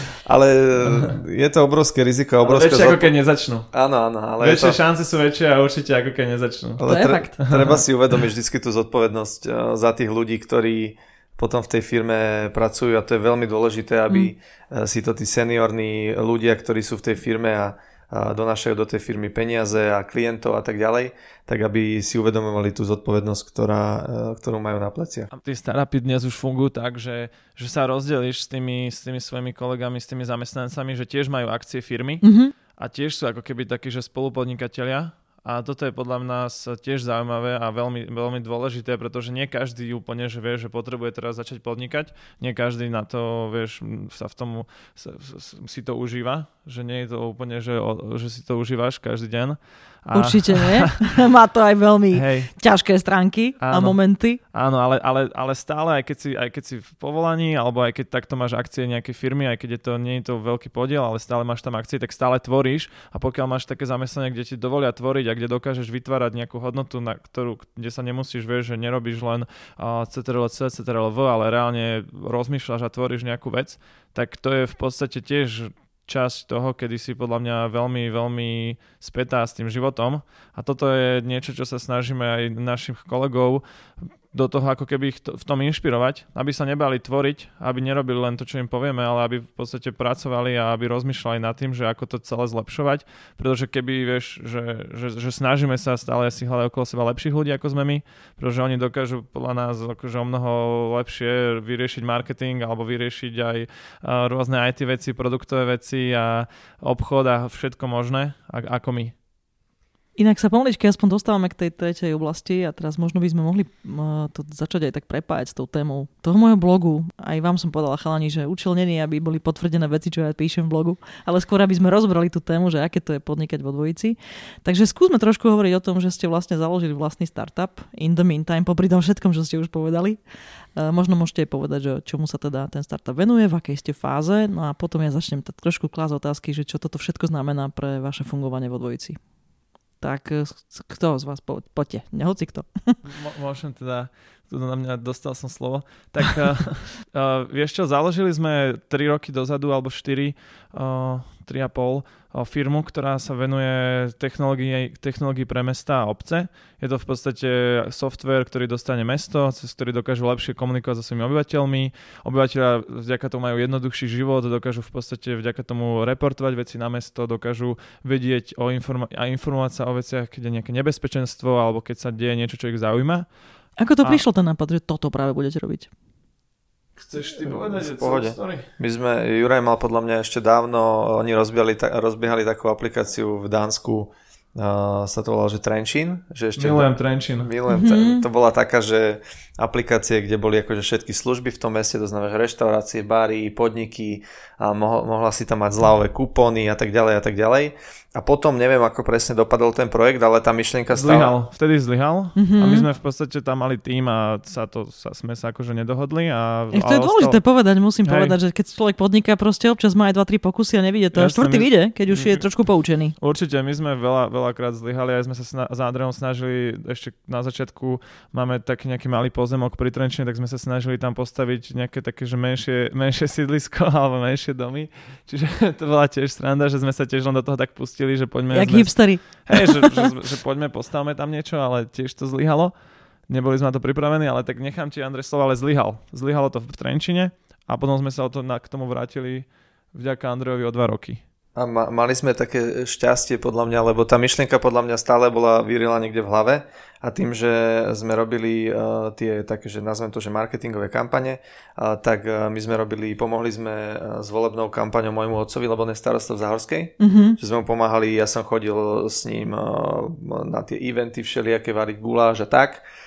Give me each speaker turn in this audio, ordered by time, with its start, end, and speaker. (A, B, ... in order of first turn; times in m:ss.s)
0:00.2-0:03.1 A
0:02.4-0:03.7 B
0:03.7-0:04.8 A
0:04.4-0:06.8 B
0:06.8-0:25.3 A
0:06.8-0:07.4 C
0:07.4-0:07.8 B
0:25.3-0:51.0 B
0:32.2-0:32.5 C
0:50.1-0:54.4 C
0:52.1-0:52.5 B
0:53.6-1:49.1 B
1:50.2-2:10.2 C
2:10.8-2:19.2 C
2:20.0-2:23.0 C
2:23.1-2:53.3 B
2:53.8-2:55.9 C
2:57.0-2:58.7 B
2:57.4-3:21.3 A
3:06.6-3:07.5 B
3:07.7-3:08.2 C
3:20.9-3:27.4 B
3:22.4-3:22.9 C
3:26.7-3:33.2 C
3:28.0-3:28.4 B
3:31.1-3:32.5 B
3:33.2-3:52.8 B
3:48.5-3:50.1 C
3:53.3-4:01.2 B
4:01.6-4:22.8 A
4:17.0-4:17.4 C